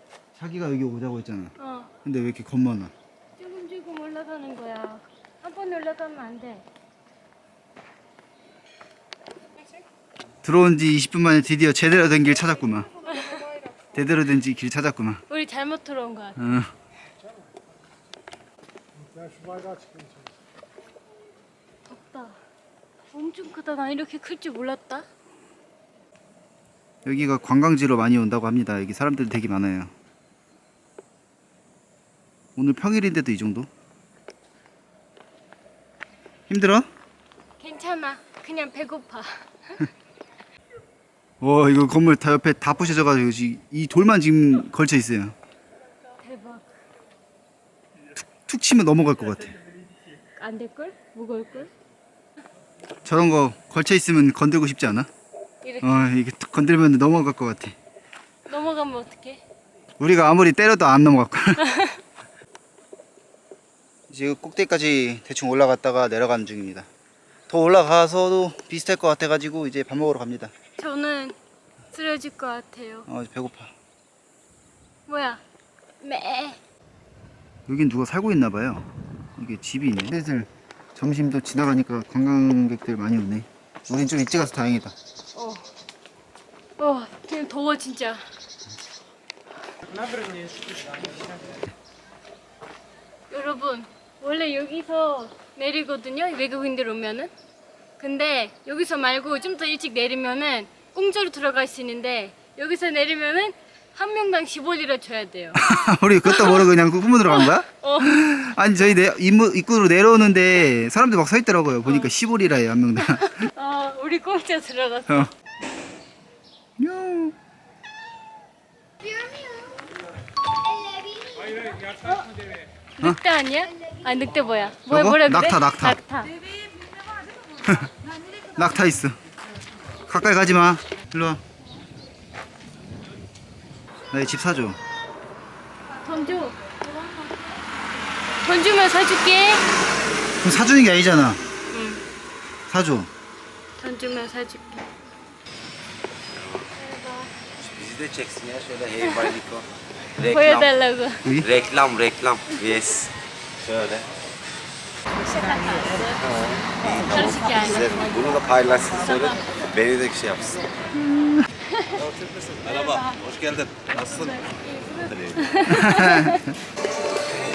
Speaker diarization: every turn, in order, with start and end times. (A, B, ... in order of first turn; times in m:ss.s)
0:00.4-0:01.5 A
0:01.6-0:01.9 B
0:02.0-0:02.9 A
0:03.4-0:06.6 B
0:10.4-0:12.9 A
0:13.1-0:13.4 B
0:13.9-0:15.2 A
0:15.3-0:16.5 B
0:16.4-0:16.7 A
0:21.9-0:22.4 B
0:23.1-0:25.1 B
0:27.0-0:29.9 A
0:32.6-0:33.7 A
0:36.5-0:36.9 A
0:37.6-0:39.8 B
0:41.4-0:45.4 A
0:46.2-0:46.7 B
0:48.2-0:49.6 A
0:50.4-0:51.7 B
0:53.0-0:55.1 A
0:55.6-0:56.0 B
0:55.8-0:57.8 A
0:58.5-0:59.4 B
1:00.0-1:01.6 A
1:01.7-1:02.0 B
1:04.1-1:06.9 A
1:07.5-1:10.5 A
1:10.8-1:11.4 B
1:11.9-1:13.1 B
1:13.1-1:13.7 A
1:15.1-1:15.4 B
1:16.0-1:16.6 B
1:17.7-1:24.9 A
1:25.3-1:25.7 B
1:26.8-1:28.3 B
1:33.3-1:37.3 B
1:38.0-1:45.6 B
1:45.6-1:53.5 A
1:46.2-1:46.7 B
1:47.3-1:48.2 B
1:51.8-1:52.1 B
1:53.1-1:55.3 B
1:56.8-1:57.4 A
2:01.3-2:02.3 B
2:03.0-2:06.4 B
2:04.9-2:06.0 A
2:07.6-2:07.9 A
2:08.5-2:09.2 A
2:10.1-2:11.4 A
2:14.1-2:14.8 A
2:16.0-2:16.6 B
2:18.4-2:19.6 B
2:20.4-2:21.4 A
2:21.7-2:22.0 B
2:22.7-2:23.1 A
2:23.8-2:24.9 B
2:26.8-2:27.3 B
2:27.6-2:29.6 C
2:29.0-2:29.4 B
2:30.2-2:30.7 C
2:30.2-2:31.4 B
2:31.2-2:31.5 A
2:31.4-2:33.1 C
2:33.6-2:34.0 C
2:35.2-2:38.2 B
2:36.2-2:40.6 C
2:39.0-2:39.4 B
2:40.9-2:41.5 A
2:41.7-2:42.0 B
2:42.6-2:43.2 B
2:42.7-2:44.0 C
2:43.9-2:46.5 B
2:45.7-2:46.6 A